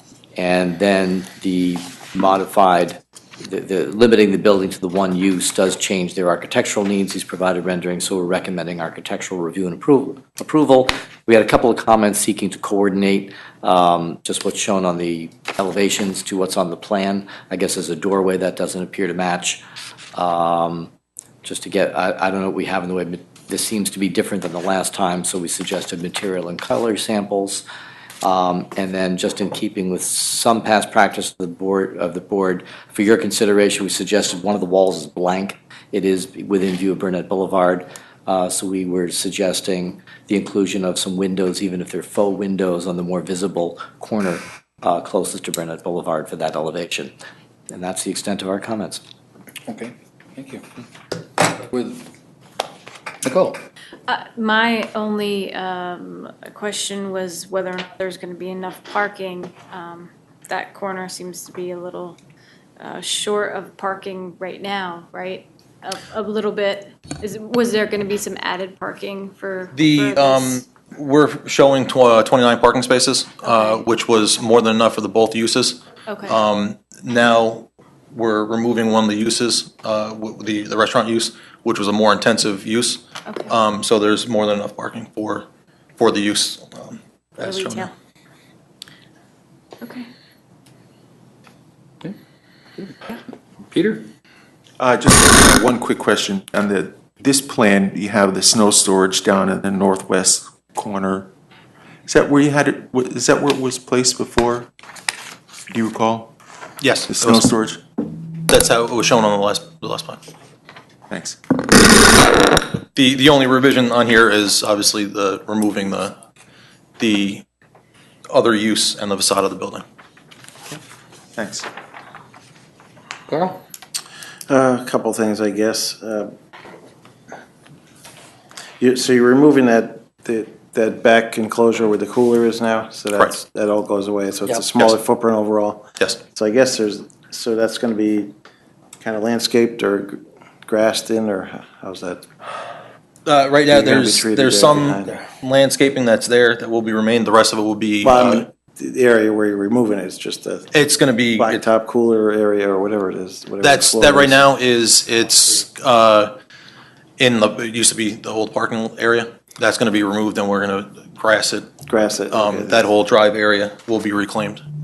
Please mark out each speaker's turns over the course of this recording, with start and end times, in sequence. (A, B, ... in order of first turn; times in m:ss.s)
0:00.4-0:19.6 A
0:20.1-0:20.9 A
0:21.4-0:27.6 A
0:28.2-0:47.1 A
0:47.7-0:49.0 A
0:49.7-0:50.8 B
0:51.4-0:52.0 B
0:53.2-0:53.6 B
0:54.1-1:02.2 C
1:02.8-1:10.6 C
1:09.7-1:25.4 D
1:13.4-1:13.8 C
1:16.1-1:16.4 C
1:23.2-1:23.5 C
1:26.0-1:27.9 D
1:27.4-1:27.9 C
1:29.8-1:30.1 C
1:32.8-1:33.2 B
1:33.7-1:34.0 B
1:34.8-1:41.3 E
1:42.1-1:44.7 E
1:45.7-1:46.3 E
1:46.8-1:47.5 D
1:47.1-1:47.8 E
1:48.4-1:50.2 D
1:51.1-1:51.4 E
1:52.9-1:56.1 D
1:57.0-1:57.4 D
1:58.3-1:59.8 D
2:01.4-2:01.6 E
2:03.3-2:03.6 B
2:04.5-2:06.3 F
2:08.8-2:18.3 F
2:19.0-2:22.2 F
2:23.2-2:28.4 D
2:23.7-2:25.2 F
2:28.0-2:30.7 F
2:30.7-2:31.6 D
2:31.3-2:34.4 F
2:33.6-2:36.3 D
2:37.2-2:41.7 D
2:41.9-2:42.9 F
2:42.3-2:44.6 D